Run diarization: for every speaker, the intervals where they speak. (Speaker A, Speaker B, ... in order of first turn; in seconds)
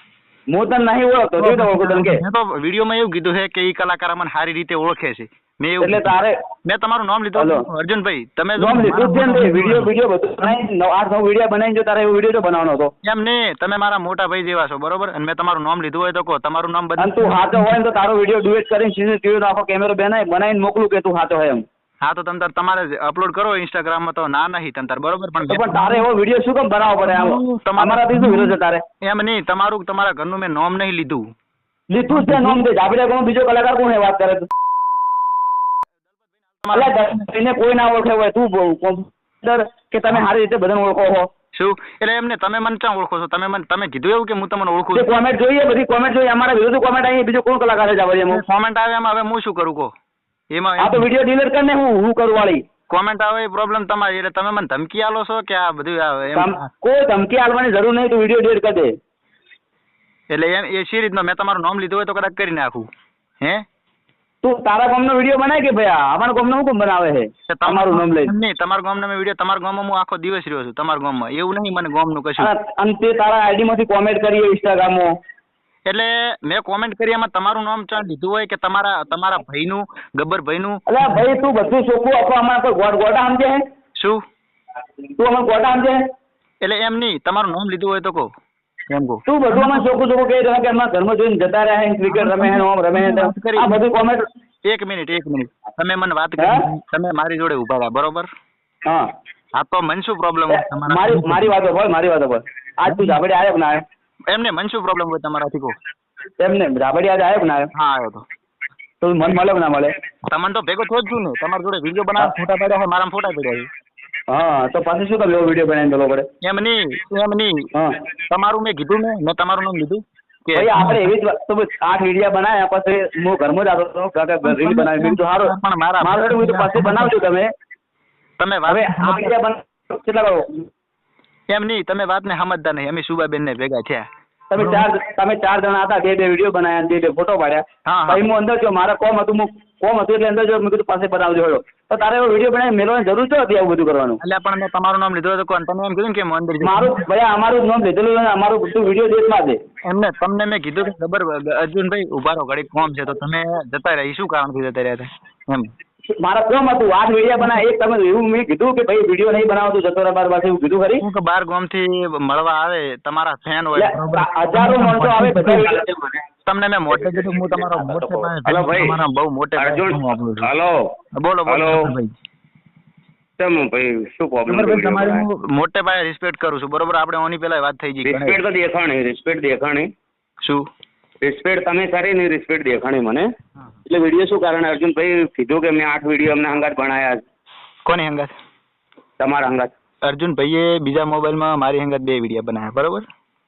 Speaker A: 0.5-2.2, 5.8-6.3, 7.4-7.6, 8.6-12.9, 17.0-21.6, 25.5-28.8, 31.9-34.5, 36.7-41.3, 44.9-48.4, 50.8-52.6, 56.4-58.9, 64.4-68.3, 72.4-75.1, 80.9-83.6, 85.2-86.0, 89.2-94.2, 96.4-96.7, 100.9-103.8, 106.4-107.7, 109.0-109.9, 114.3-116.2, 120.5-127.5, 128.7-130.6, 134.5-144.2, 146.6-149.6, 156.2-161.0, 163.9-165.8
Speaker B: 1.4-9.9, 13.0-17.8, 22.0-26.1, 27.0-31.3, 32.1-32.6, 36.6-37.2, 41.5-45.1, 48.3-49.9, 50.5-51.1, 52.9-56.6, 60.3-62.9, 67.5-72.5, 75.9-81.2, 86.6-88.3, 88.9-89.9, 92.1-93.8, 94.6-98.3, 99.5-101.5, 102.8-103.2, 104.3-105.8, 107.7-108.2, 110.3-113.7, 116.4-117.7, 118.3-121.1, 124.4-127.1, 128.4-129.3, 131.5-134.9, 137.8-138.2, 144.2-147.0, 149.8-155.7, 161.0-165.7, 166.4-170.5, 171.1-172.1, 174.5-178.4, 180.4-180.7, 187.8-188.3, 190.0-193.1
Speaker C: 165.6-166.1, 166.9-168.9, 169.6-170.9, 171.5-171.9, 173.4-175.2, 178.1-179.9, 181.2-183.3, 183.8-187.2, 189.2-189.7